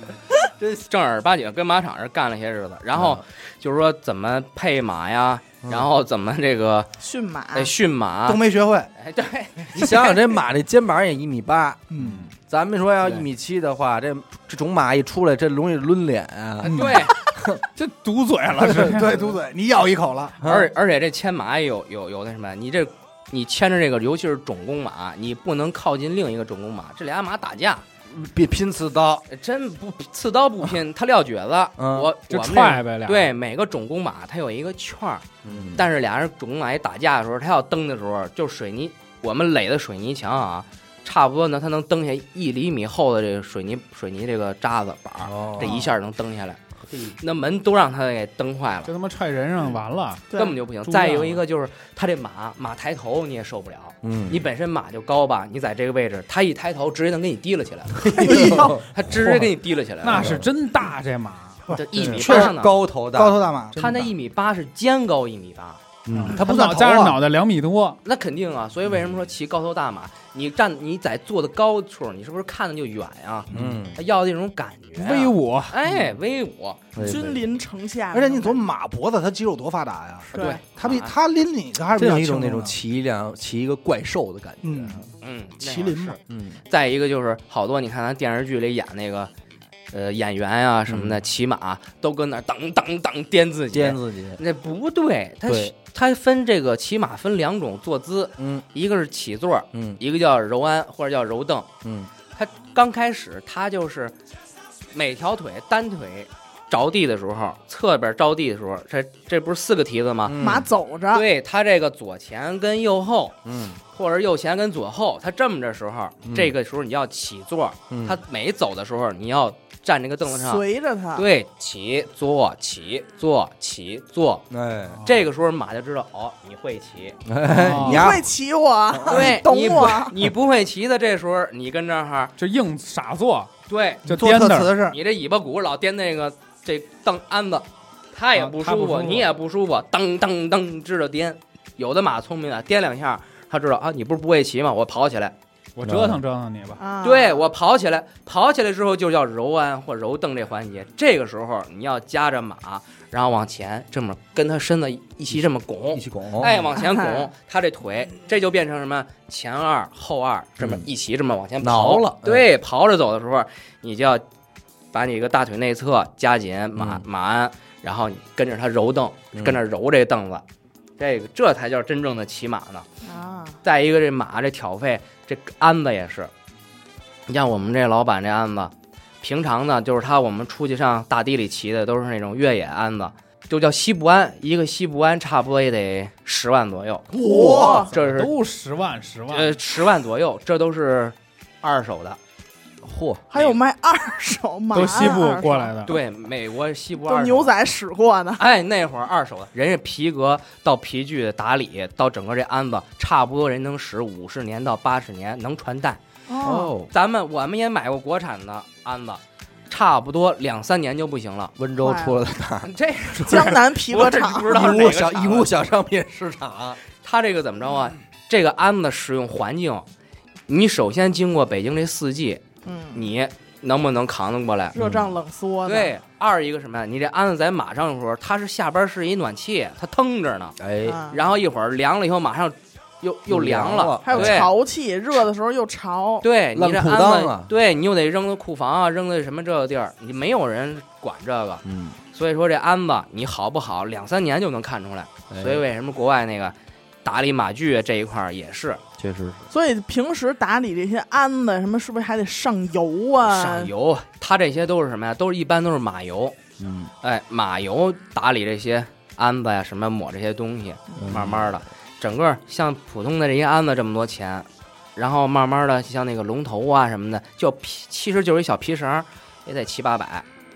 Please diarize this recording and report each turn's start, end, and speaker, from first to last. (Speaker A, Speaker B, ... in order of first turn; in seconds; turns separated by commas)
Speaker A: 0.4-0.9, Speaker B: 0.9-6.9, Speaker A: 2.9-3.2, Speaker A: 5.6-5.9, Speaker C: 7.0-7.7, Speaker B: 7.5-8.4, Speaker D: 8.2-8.9, Speaker B: 9.0-10.2, Speaker A: 9.7-17.6, Speaker D: 11.9-12.3, Speaker B: 16.6-17.1, Speaker D: 16.7-16.9, Speaker E: 17.7-19.1, Speaker D: 18.8-20.4, Speaker A: 20.4-20.7, Speaker B: 20.4-27.9, Speaker A: 28.1-29.2, Speaker B: 29.3-46.6, Speaker A: 31.8-32.1, Speaker E: 32.3-33.3, Speaker A: 35.4-35.9, Speaker A: 45.2-46.0, Speaker A: 46.9-47.1, Speaker B: 47.2-48.9, Speaker E: 48.9-50.3, Speaker B: 50.3-60.4, Speaker E: 50.8-51.4, Speaker A: 54.0-54.5, Speaker A: 58.0-58.8, Speaker D: 58.0-58.8, Speaker E: 59.1-59.5, Speaker E: 60.0-61.6, Speaker A: 60.1-60.5, Speaker B: 61.7-62.7, Speaker A: 61.9-63.4, Speaker D: 62.0-62.5, Speaker D: 63.1-64.0, Speaker B: 63.8-65.8, Speaker A: 66.1-66.4, Speaker E: 66.2-68.0, Speaker D: 66.2-67.2, Speaker B: 68.0-77.0, Speaker A: 73.5-74.0, Speaker E: 75.0-75.7, Speaker A: 76.9-77.4, Speaker C: 77.0-78.6, Speaker D: 78.1-82.7, Speaker C: 80.3-80.6, Speaker B: 80.3-81.1, Speaker A: 82.0-85.0, Speaker D: 84.6-85.0, Speaker B: 85.2-89.3, Speaker D: 85.6-86.2, Speaker A: 86.3-86.6, Speaker B: 89.9-101.7, Speaker A: 90.9-91.2, Speaker A: 93.7-94.4, Speaker A: 95.5-95.7, Speaker A: 98.4-98.7, Speaker A: 99.7-100.0, Speaker A: 101.8-102.1, Speaker B: 102.3-104.2, Speaker B: 104.9-110.4, Speaker A: 110.2-110.7, Speaker C: 110.4-111.3, Speaker B: 111.1-113.4, Speaker A: 113.5-113.8, Speaker B: 113.9-120.6, Speaker A: 116.2-116.5, Speaker A: 117.9-118.2, Speaker C: 120.3-121.2, Speaker B: 121.2-124.5, Speaker A: 124.5-125.0, Speaker B: 125.0-127.2, Speaker A: 127.3-128.3, Speaker E: 127.5-128.1, Speaker C: 127.8-130.2, Speaker A: 128.9-129.4, Speaker B: 129.1-132.3, Speaker E: 132.4-133.5, Speaker B: 133.7-134.1, Speaker E: 134.1-134.7, Speaker D: 134.1-135.0, Speaker B: 134.9-145.3, Speaker E: 138.4-139.3, Speaker E: 145.8-146.8, Speaker A: 145.8-146.2, Speaker C: 146.8-147.4, Speaker B: 147.0-164.2, Speaker A: 155.9-156.6, Speaker C: 156.7-157.3, Speaker A: 160.6-160.8, Speaker A: 161.6-162.5, Speaker B: 164.9-170.4, Speaker A: 166.8-167.0, Speaker A: 169.3-169.6, Speaker B: 171.0-172.9, Speaker C: 173.0-173.6, Speaker B: 173.6-176.3, Speaker B: 177.3-187.1, Speaker D: 187.1-187.9, Speaker C: 187.2-187.9, Speaker B: 187.6-188.3, Speaker E: 187.9-189.6, Speaker B: 189.3-192.2, Speaker A: 192.8-193.2, Speaker C: 193.3-195.7, Speaker E: 194.7-195.9, Speaker B: 195.8-197.5, Speaker C: 197.0-198.4, Speaker B: 198.4-206.0, Speaker C: 206.3-206.7, Speaker A: 206.4-206.9, Speaker B: 206.9-211.5, Speaker A: 211.6-213.6, Speaker C: 211.8-212.2, Speaker B: 212.6-215.5, Speaker C: 213.3-214.9, Speaker A: 214.5-216.8, Speaker B: 217.0-219.9, Speaker B: 220.5-224.8, Speaker C: 222.7-223.1, Speaker C: 224.7-225.9, Speaker A: 224.8-225.1, Speaker B: 225.7-230.6, Speaker A: 230.6-231.0, Speaker C: 230.8-231.2, Speaker B: 231.1-234.5, Speaker A: 233.3-234.4, Speaker C: 234.0-236.3, Speaker B: 236.2-248.8, Speaker A: 236.5-237.5, Speaker A: 241.7-242.0, Speaker A: 245.3-245.6, Speaker A: 249.0-249.5, Speaker C: 249.5-253.7, Speaker B: 253.2-256.4, Speaker A: 256.6-256.9, Speaker B: 257.0-270.2, Speaker A: 261.0-261.5